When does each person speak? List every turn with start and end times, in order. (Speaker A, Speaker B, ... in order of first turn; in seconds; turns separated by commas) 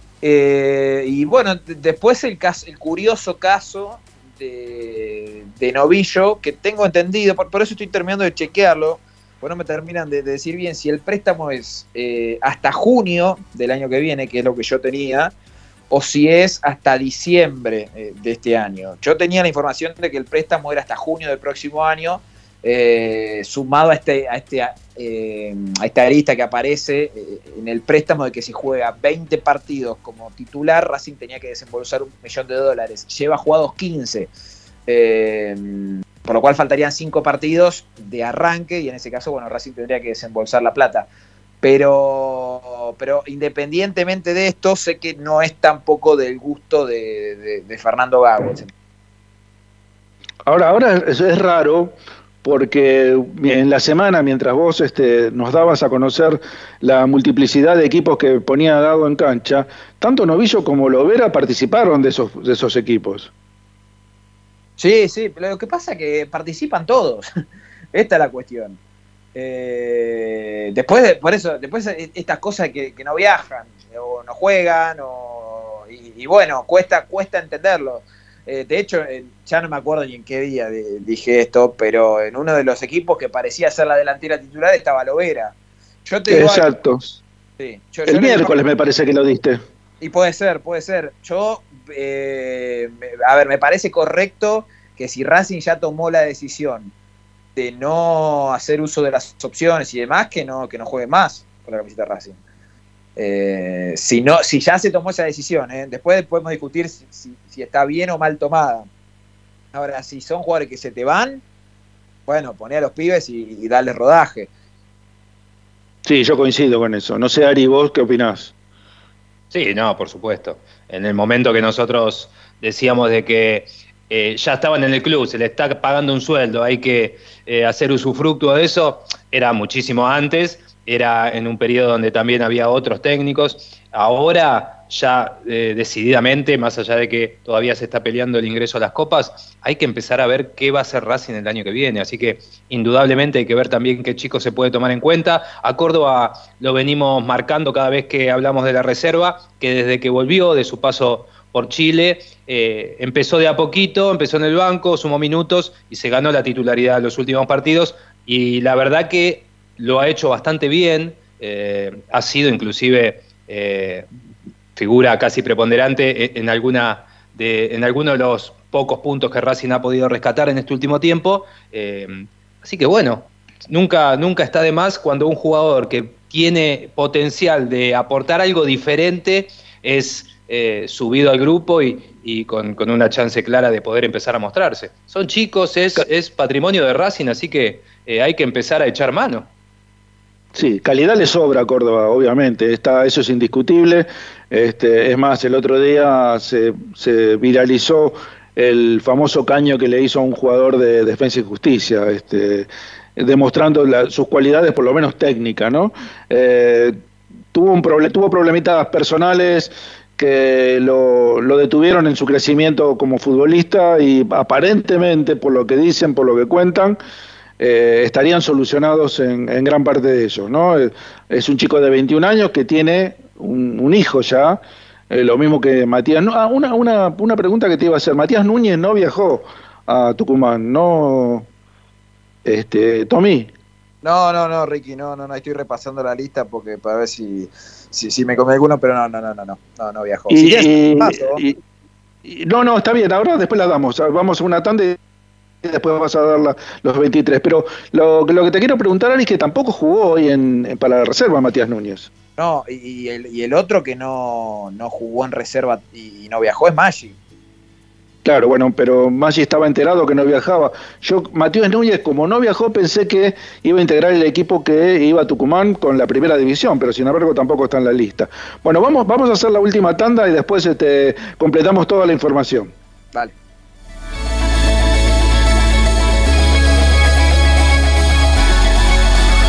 Speaker A: 0.2-15.3, Speaker A: 15.9-34.3, Speaker A: 34.9-41.1, Speaker A: 41.6-48.7, Speaker B: 50.5-63.3, Speaker A: 64.8-67.3, Speaker A: 67.9-68.8, Speaker A: 69.3-85.5, Speaker A: 86.0-86.7, Speaker B: 86.3-87.2, Speaker A: 87.6-88.6, Speaker B: 88.0-89.6, Speaker A: 90.0-96.9, Speaker A: 97.5-102.4, Speaker A: 103.2-108.9, Speaker A: 109.7-111.4, Speaker A: 112.3-114.5, Speaker B: 116.0-118.5, Speaker C: 119.5-164.1, Speaker C: 164.8-189.5, Speaker B: 190.5-217.0, Speaker B: 217.6-231.5, Speaker B: 232.4-233.5, Speaker A: 234.0-241.4, Speaker B: 240.3-241.6, Speaker B: 242.2-245.0, Speaker B: 245.6-252.1, Speaker A: 252.4-257.1, Speaker B: 258.2-272.7